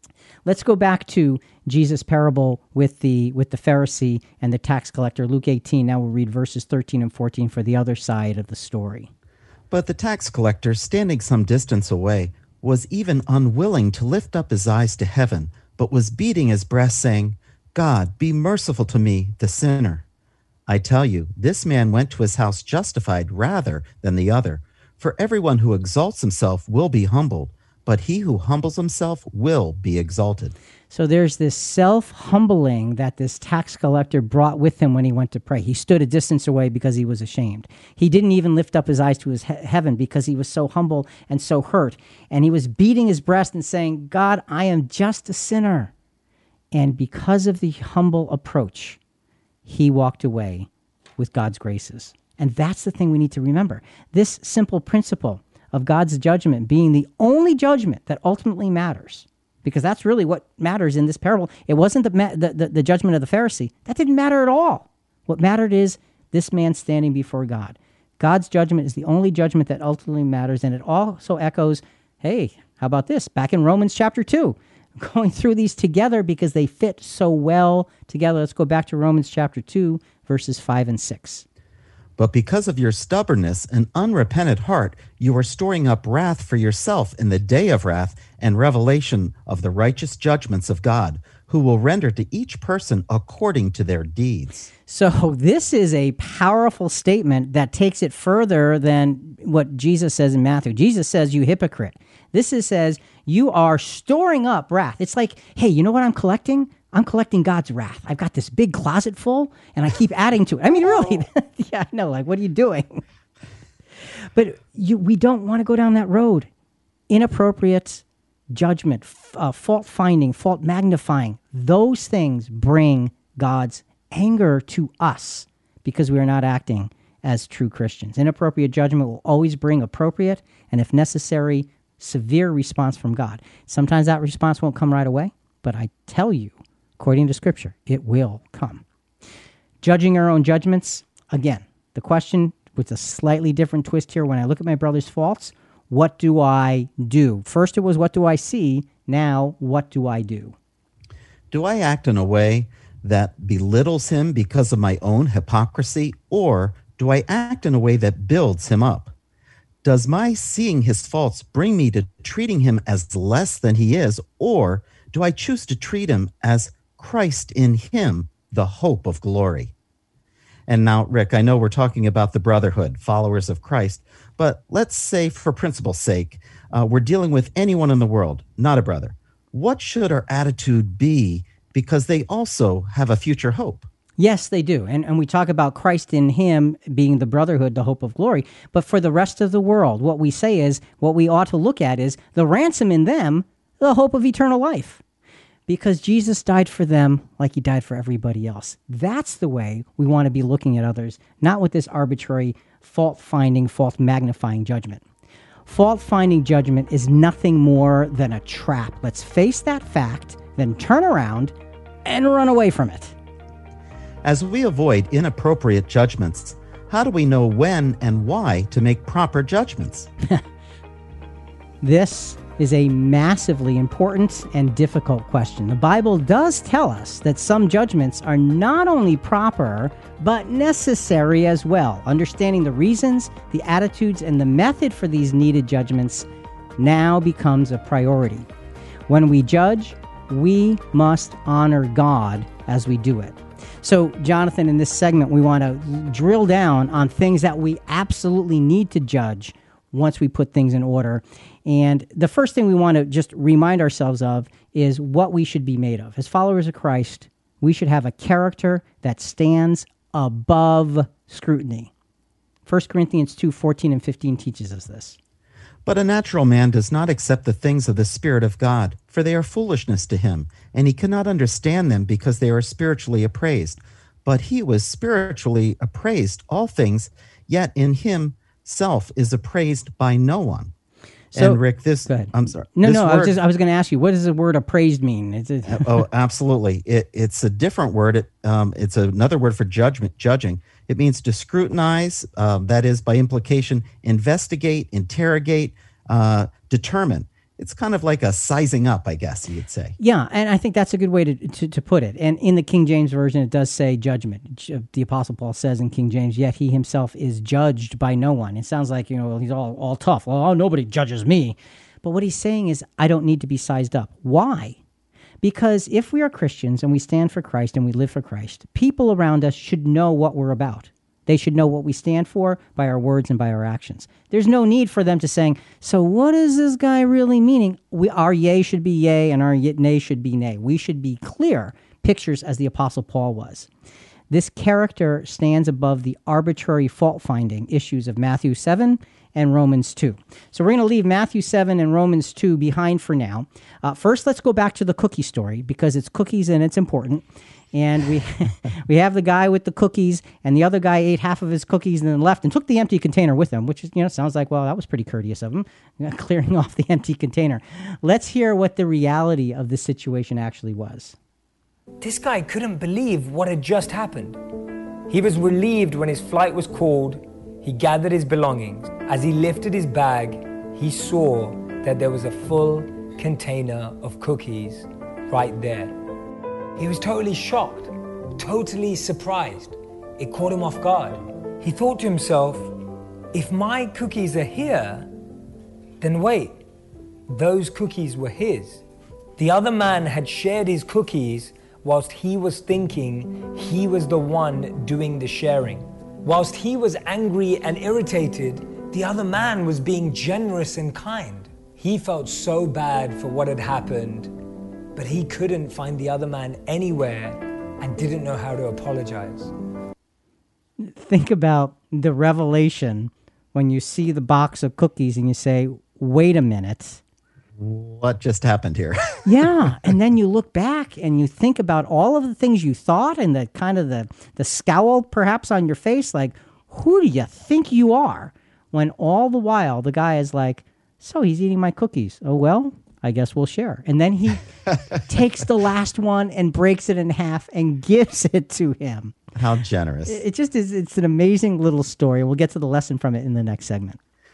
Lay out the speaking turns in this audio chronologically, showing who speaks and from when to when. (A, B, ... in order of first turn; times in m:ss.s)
0:00.4-0:09.1 A
0:09.7-0:20.0 B
0:20.7-0:30.5 B
0:30.9-0:45.9 A
0:46.7-0:49.0 A
0:49.6-1:21.4 A
1:22.2-1:34.7 B
1:34.9-1:53.0 A
1:54.3-1:56.5 A
1:57.1-2:18.8 A
2:19.8-2:30.5 A
2:31.5-2:39.1 B
2:39.8-2:49.7 B
2:50.7-3:03.9 B
3:04.2-3:15.0 A
3:15.7-3:25.0 A
3:25.6-3:31.5 A
3:32.0-3:33.1 A
3:34.2-3:40.1 B
3:41.8-3:58.5 A
3:59.1-4:21.9 A
4:22.6-4:25.2 A
4:25.8-4:40.7 B
4:41.3-4:46.0 A
4:41.4-4:43.3 B
4:45.6-5:00.0 B
5:00.0-5:14.8 A
5:15.4-5:33.7 A
5:34.3-6:01.2 A
6:02.0-6:04.4 C
6:05.1-6:15.9 C
6:16.8-6:22.7 C
6:23.3-6:25.1 C
6:26.0-6:26.6 C
6:27.3-6:28.8 C
6:29.4-6:44.3 C
6:44.9-6:49.5 C
6:50.8-6:57.0 A
6:57.6-6:59.4 B
6:59.2-7:19.2 A
7:19.3-7:20.2 B
7:20.0-7:24.0 A